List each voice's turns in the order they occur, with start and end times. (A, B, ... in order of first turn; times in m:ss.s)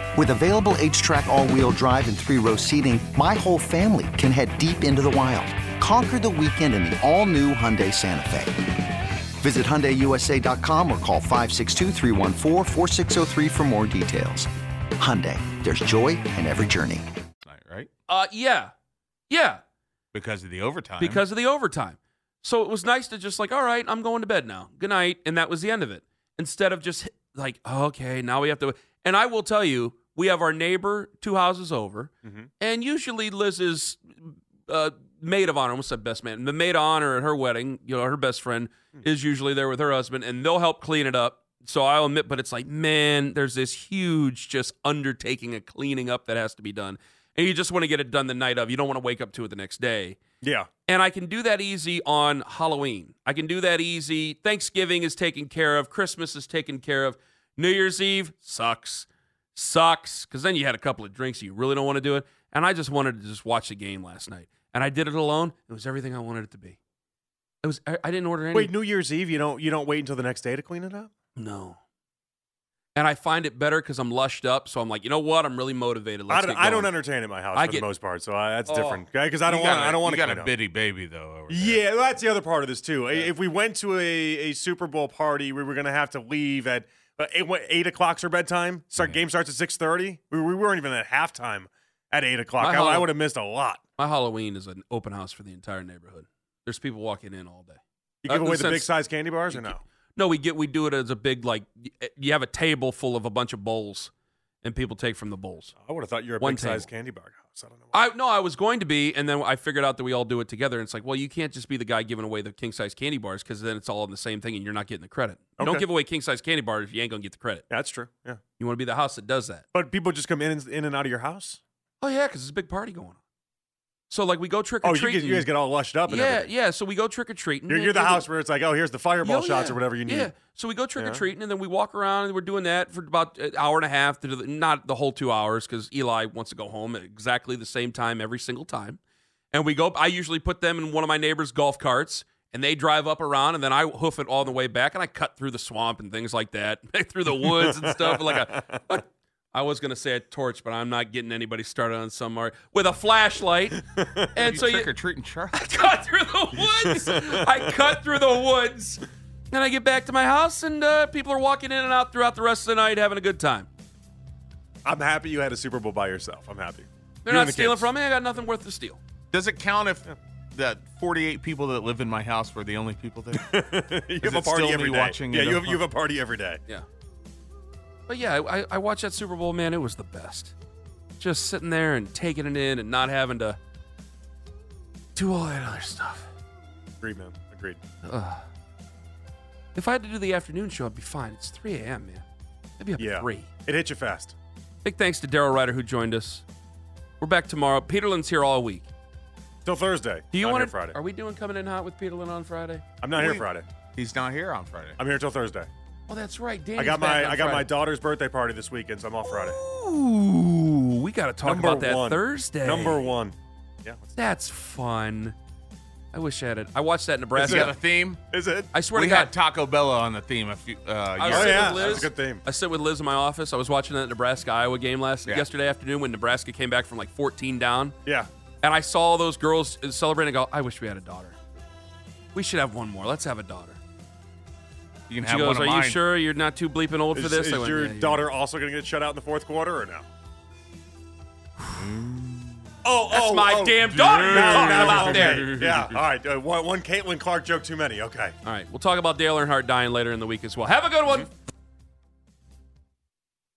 0:00.2-0:08.6 A
0:09.4-0:17.0 A
0:17.4-0:17.9 B
0:18.1-0:18.7 C
0:19.3-0:19.6 C
0:20.1-0:21.2 B
0:21.0-0:34.0 C
0:34.7-0:50.2 C
0:50.4-0:50.7 D
0:50.9-1:06.8 C
1:07.6-1:08.7 C
1:08.5-1:11.1 D
1:11.4-1:11.8 C
1:13.0-1:17.0 C
1:16.3-1:20.5 D
1:17.6-1:17.9 C
1:18.7-1:19.0 C
1:19.5-1:21.8 B
1:21.5-1:33.8 D
1:32.6-1:33.2 C
1:34.0-1:44.1 C
1:38.2-1:39.8 D
1:44.6-1:45.7 C
1:45.8-1:48.1 D
1:46.4-1:46.9 C
1:47.9-1:57.6 C
1:55.6-1:55.9 D
1:57.7-1:58.4 D
1:58.6-1:59.6 C
1:59.7-2:01.6 D
2:02.0-2:03.2 C
2:04.1-2:05.5 C
2:04.8-2:06.5 D
2:06.1-2:08.3 C
2:07.7-2:10.3 D
2:09.2-2:19.0 C
2:11.0-2:11.2 D
2:19.5-2:33.8 C
2:27.3-2:28.8 D
2:34.0-2:34.3 D
2:34.3-2:34.9 C
2:34.4-2:35.6 B
2:35.5-2:43.7 C
2:36.6-2:38.0 D
2:44.8-2:47.9 D
2:47.2-2:49.0 C
2:49.3-2:53.4 B
2:53.3-2:56.6 D
2:54.2-2:55.9 B
2:58.1-3:00.5 C
3:01.2-3:03.6 C
3:05.2-3:06.3 C
3:07.0-3:07.8 D
3:08.0-3:08.4 C
3:09.8-3:12.2 C
3:12.8-3:13.5 C
3:13.0-3:14.4 D
3:14.8-3:16.4 C
3:17.2-3:18.9 C
3:19.7-3:21.0 D
3:20.3-3:22.8 C
3:23.0-3:23.7 D
3:23.2-3:25.0 B
3:25.0-3:25.7 D
3:26.1-3:27.7 C
3:26.8-3:29.6 D
3:29.2-3:33.1 C
3:31.4-3:34.1 D
3:34.2-3:35.4 C
3:36.1-3:37.8 C
3:37.4-3:38.2 B
3:37.4-3:37.7 D
3:38.3-3:38.8 D
3:38.7-3:39.3 C
3:38.8-3:42.1 B
3:41.2-3:48.0 C
3:41.3-3:42.4 D
3:48.6-3:51.4 C
3:52.3-3:53.8 C
3:55.1-3:56.0 B
3:55.2-3:58.3 C
3:57.2-4:00.0 D
4:01.8-4:02.7 B
4:02.8-4:08.3 D
4:03.1-4:05.5 C
4:03.9-4:06.0 B
4:08.4-4:11.3 C